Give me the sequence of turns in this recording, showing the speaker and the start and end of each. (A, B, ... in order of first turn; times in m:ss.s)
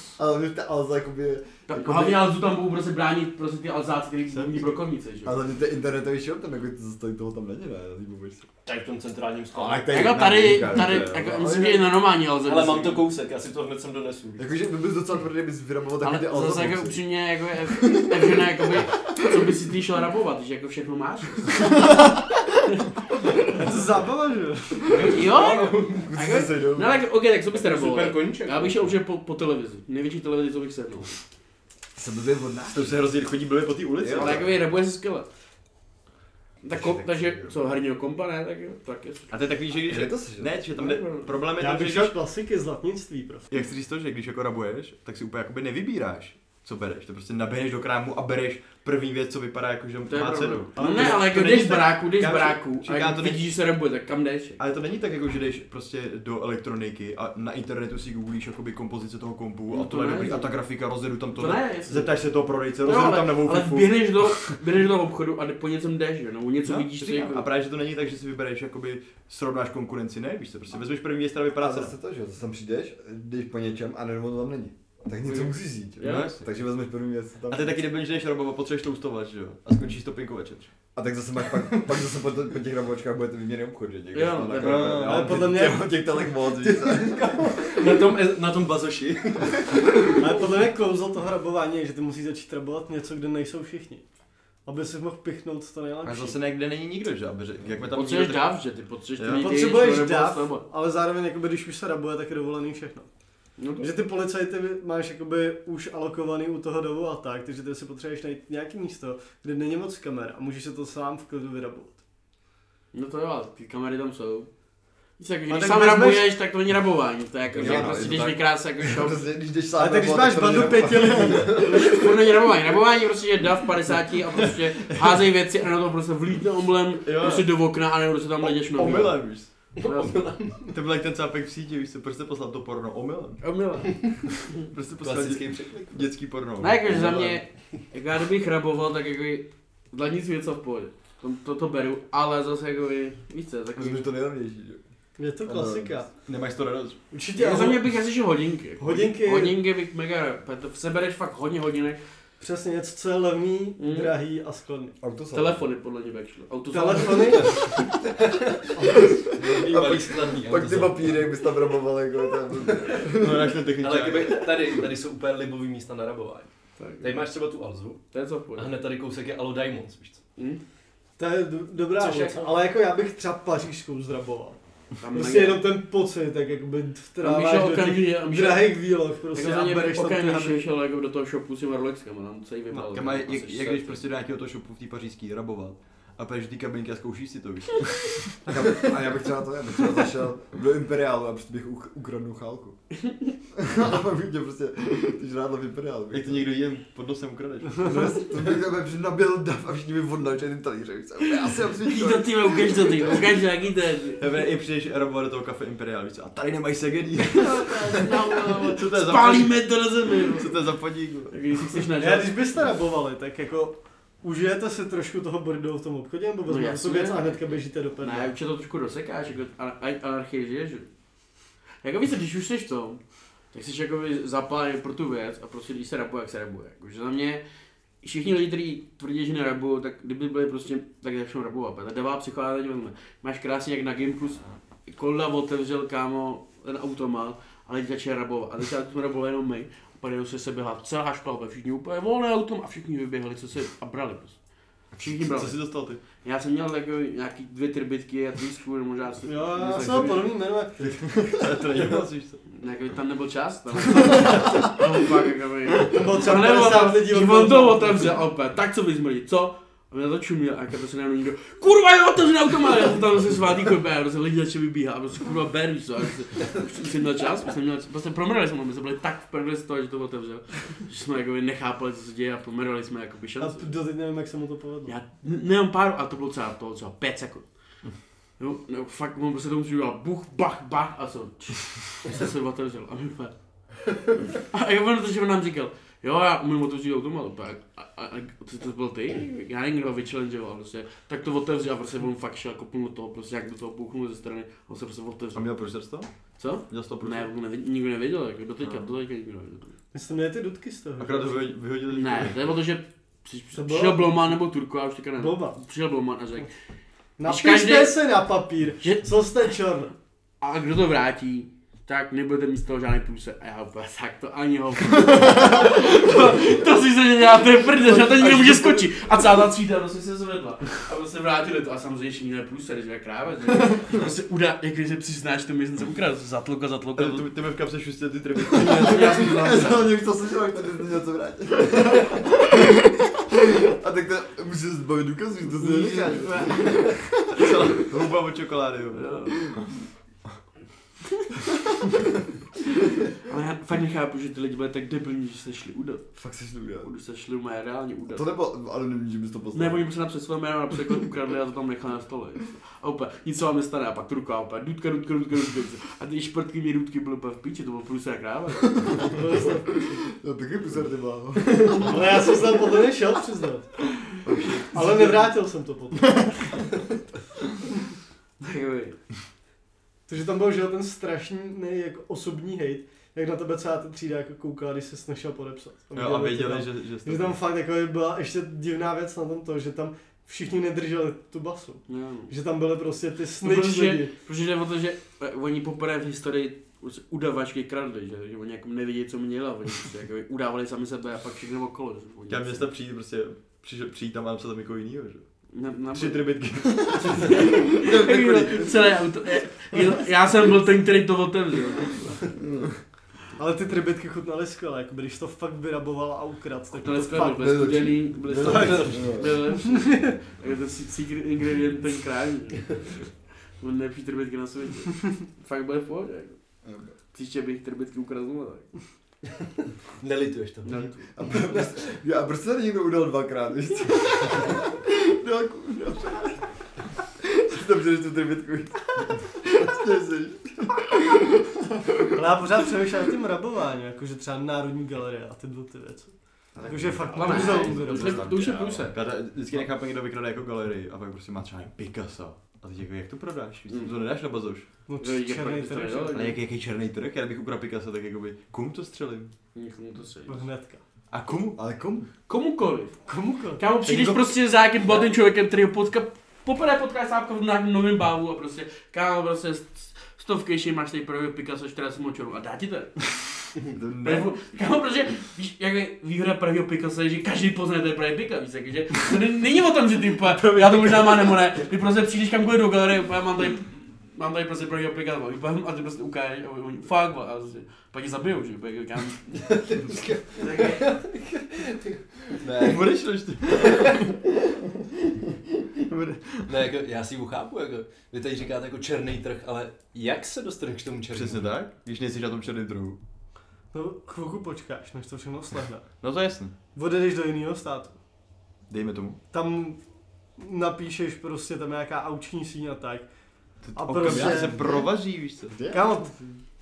0:00.2-0:02.2 A
0:01.7-0:05.4 B
0:05.2-0:08.5 A
0:08.6-0:10.0 C
0:09.5-0:11.9 A
0:09.9-0:13.0 B
0:12.4-0:14.5 C
0:14.4-0:17.0 A
0:16.0-0:21.8 B
0:17.6-0:18.8 A
0:23.5-0:25.0 D
0:24.9-0:26.1 C
0:25.0-0:31.2 B
0:26.0-0:27.0 A
0:27.5-0:28.9 C
0:31.9-0:33.0 A
0:32.7-0:34.5 E
0:34.0-0:34.6 A
0:34.1-0:35.3 B
0:36.6-0:39.4 B
0:36.7-0:37.5 A
0:39.3-0:42.2 E
0:39.9-0:40.6 A
0:40.7-0:41.3 B
0:41.6-0:43.5 D
0:43.5-0:53.4 E
0:50.1-0:54.6 B
0:50.8-0:51.8 D
0:54.6-1:04.6 E
0:59.7-1:00.5 B
1:01.3-1:02.2 B
1:02.8-1:07.5 B
1:06.6-1:11.9 E
1:11.6-1:17.8 A
1:15.2-1:16.3 B
1:16.0-1:16.4 E
1:17.5-1:20.7 E
1:20.9-1:27.6 A
1:24.1-1:25.0 B
1:24.6-1:25.4 C
1:24.7-1:25.4 E
1:25.0-1:26.0 D
1:26.6-1:30.2 C
1:30.2-1:34.0 D
1:34.6-1:36.4 D
1:36.0-1:39.7 E
1:37.9-1:40.6 B
1:39.3-1:43.1 D
1:43.6-1:43.9 B
1:43.8-1:52.0 D
1:52.9-1:54.5 B
1:55.2-1:59.2 B
1:55.5-1:56.3 D
1:57.5-2:01.8 A
1:57.6-1:58.0 E
1:59.8-2:01.7 D
2:01.6-2:10.2 B
2:07.0-2:07.5 E
2:08.4-2:09.5 E
2:09.7-2:10.7 C
2:10.7-2:13.5 E
2:13.4-2:14.4 B
2:14.6-2:17.4 E
2:15.0-2:16.1 C
2:16.6-2:24.1 B
2:23.8-2:24.8 A
2:25.2-2:26.1 D
2:25.4-2:26.1 A
2:26.2-2:27.0 E
2:27.1-2:27.9 D
2:27.3-2:32.0 B
2:28.8-2:29.6 D
2:32.4-2:35.0 D
2:33.8-2:34.2 B
2:35.0-2:35.6 A
2:35.3-2:37.6 B
2:36.7-2:37.7 D
2:38.2-2:41.2 C
2:38.8-2:43.6 A
2:43.2-2:44.5 E
2:43.8-2:46.5 C
2:47.0-2:48.0 C
2:48.1-2:48.7 B
2:48.5-2:50.2 C
2:51.2-2:54.6 D
2:51.9-2:52.6 C
2:55.0-2:55.6 B
2:55.1-3:00.6 D
2:57.2-3:04.0 B
3:02.9-3:08.5 E
3:08.5-3:12.8 A
3:13.6-3:16.5 A
3:16.1-3:18.2 E
3:17.8-3:23.2 A
3:21.8-3:24.2 B
3:24.2-3:31.4 E
3:27.3-3:30.5 B
3:31.3-3:32.3 B
3:32.0-3:38.3 D
3:36.5-3:40.9 B
3:41.8-3:43.0 B
3:43.5-3:47.4 B
3:48.0-4:04.4 B
4:05.0-4:10.3 B
4:05.0-4:06.0 E
4:09.2-4:11.0 D
4:10.8-4:12.4 E
4:12.5-4:33.8 B
4:15.9-4:18.2 D
4:33.4-4:34.9 D
4:34.8-4:37.5 B
4:38.4-4:43.3 B
4:44.3-4:55.5 B
4:55.3-4:56.1 E
4:56.4-4:59.7 B
4:56.6-4:57.3 E
4:59.9-5:01.5 D
5:01.0-5:02.5 E
5:01.9-5:06.5 B
5:03.5-5:04.2 D
5:05.2-5:05.6 D
5:07.2-5:09.9 D
5:07.2-5:08.0 B
5:08.8-5:09.1 B
5:10.4-5:27.3 B
5:17.8-5:18.9 E
5:27.0-5:29.1 E
5:28.5-5:29.9 B
5:28.6-5:32.7 A
5:33.3-5:37.6 A
5:35.5-5:36.9 B
5:37.4-5:39.8 E
5:38.9-5:39.6 B
5:43.2-5:46.1 B
5:46.1-5:46.9 A
5:46.8-5:48.2 B
5:48.1-5:49.8 A
5:49.5-5:59.0 B
5:59.1-6:00.0 D
6:00.1-6:02.0 A
6:01.8-6:03.7 D
6:04.2-6:05.1 E
6:04.7-6:06.4 D
6:08.4-6:09.0 B
6:10.1-6:24.1 D
6:15.9-6:17.4 E
6:21.9-6:22.3 B
6:23.4-6:32.7 B
6:32.3-6:35.3 E
6:35.5-6:36.3 B
6:35.9-6:38.7 E
6:37.0-6:42.3 B
6:43.4-6:47.7 D
6:46.7-6:56.4 B
6:47.4-6:49.4 A
6:48.3-6:50.1 D
6:48.4-6:49.1 C
6:56.6-6:56.9 A
6:57.1-6:58.7 B
7:00.0-7:00.7 C
7:00.6-7:01.1 B
7:01.1-7:06.5 A
7:07.2-7:11.2 A
7:12.1-7:18.3 D
7:16.6-7:18.8 A
7:16.6-7:24.6 E
7:17.1-7:19.0 B
7:24.9-7:26.2 D
7:25.0-7:26.4 B
7:26.1-7:29.3 E
7:29.5-7:30.4 B
7:30.3-7:30.8 D
7:31.1-7:31.6 E
7:31.6-7:32.1 A
7:32.3-7:33.0 B
7:33.0-7:33.6 D
7:33.6-7:43.2 B
7:33.8-7:34.2 E
7:43.7-7:44.3 E
7:44.0-7:59.6 B
7:50.6-7:51.0 E
7:59.5-8:02.8 C
8:00.4-8:00.9 B
8:02.4-8:04.2 E
8:05.8-8:06.5 E
8:06.5-8:11.5 C
8:11.1-8:13.0 E
8:13.7-8:15.9 D
8:16.0-8:16.5 E
8:16.7-8:18.0 D
8:18.7-8:19.2 E
8:19.3-8:19.8 D
8:20.4-8:23.1 D
8:23.6-8:25.6 E
8:23.7-8:24.9 D
8:24.0-8:24.8 A
8:25.5-8:26.4 A
8:25.7-8:26.1 D